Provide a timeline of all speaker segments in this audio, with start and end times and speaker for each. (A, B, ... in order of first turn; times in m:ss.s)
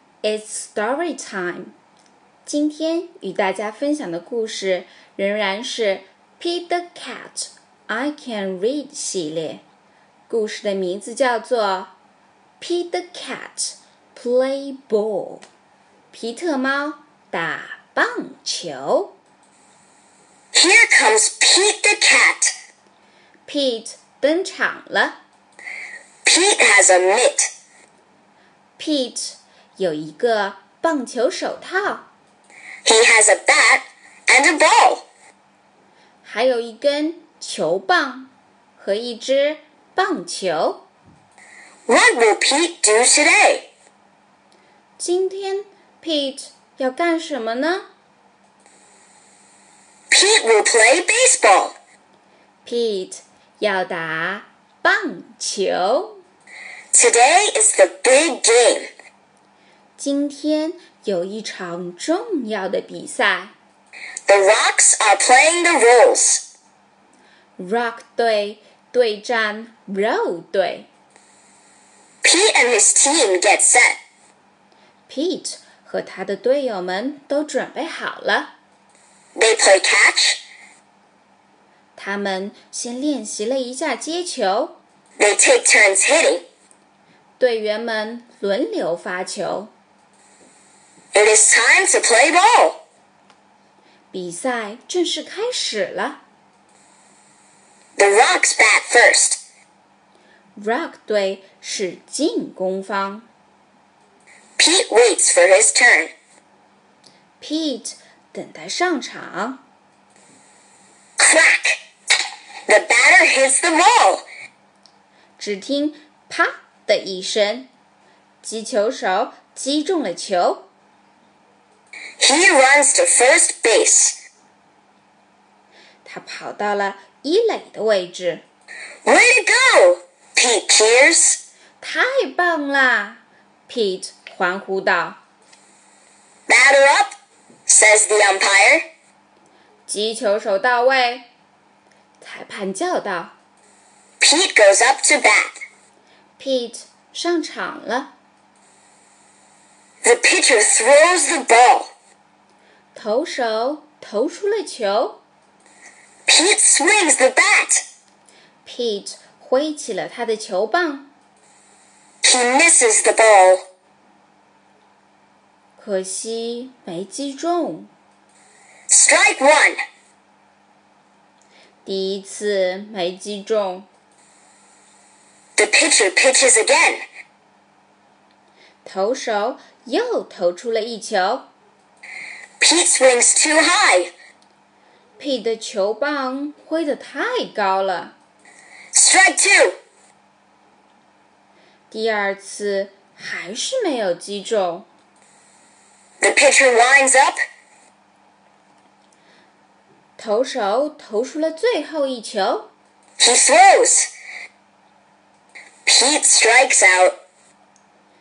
0:00.2-0:01.7 A
0:02.4-0:09.6 A
0:10.3-0:11.9 A
0:12.6-0:15.4 A
0:16.1-0:19.1 A
0:20.5-0:22.5 B
0:23.5-0:25.2 A
0:26.2-0:27.5 B
0:28.8-0:32.1 A
0:32.8-0:35.0 B
0:36.2-0:40.8 A
0:41.9-0:43.7 B
0:45.0-0:47.9 A
0:50.1-0:51.8 B
0:52.6-0:56.2 A
0:56.9-0:58.9 B
1:00.0-1:03.5 A
1:04.3-1:06.4 B
1:07.6-1:10.9 A
1:12.2-1:14.0 B
1:15.1-1:18.5 A
1:19.3-1:20.4 B
1:22.0-1:24.8 A
1:25.2-1:26.4 B
1:27.4-1:29.7 A
1:31.1-1:32.8 B
1:34.1-1:36.2 A
1:38.0-1:39.4 B
1:40.6-1:43.3 A
1:44.6-1:46.1 B
1:47.4-1:49.6 A
1:51.2-1:51.8 B
1:52.7-1:54.2 B
1:55.4-1:57.7 A
1:58.4-2:00.7 A
2:02.2-2:04.1 B
2:06.0-2:08.4 A
2:09.0-2:11.4 B
2:11.8-2:15.2 A
2:16.5-2:17.1 B
2:17.7-2:18.8 B
2:19.9-2:21.3 A
2:22.2-2:23.3 A
2:24.2-2:25.6 B
2:26.4-2:28.1 A
2:30.0-2:31.9 B
2:32.9-2:35.2 A
2:36.3-2:37.8 B
2:38.6-2:41.1 A
2:42.2-2:43.6 B
2:45.8-2:47.9 A
2:48.9-2:49.8 B
2:51.8-2:53.9 A
2:55.6-2:57.0 B
2:58.8-3:01.5 A
3:02.6-3:04.1 B
3:05.2-3:08.1 A
3:08.9-3:09.8 B
3:11.9-3:14.9 A
3:16.2-3:17.4 B
3:20.2-3:22.7 A
3:23.2-3:24.1 B
3:25.8-3:27.2 B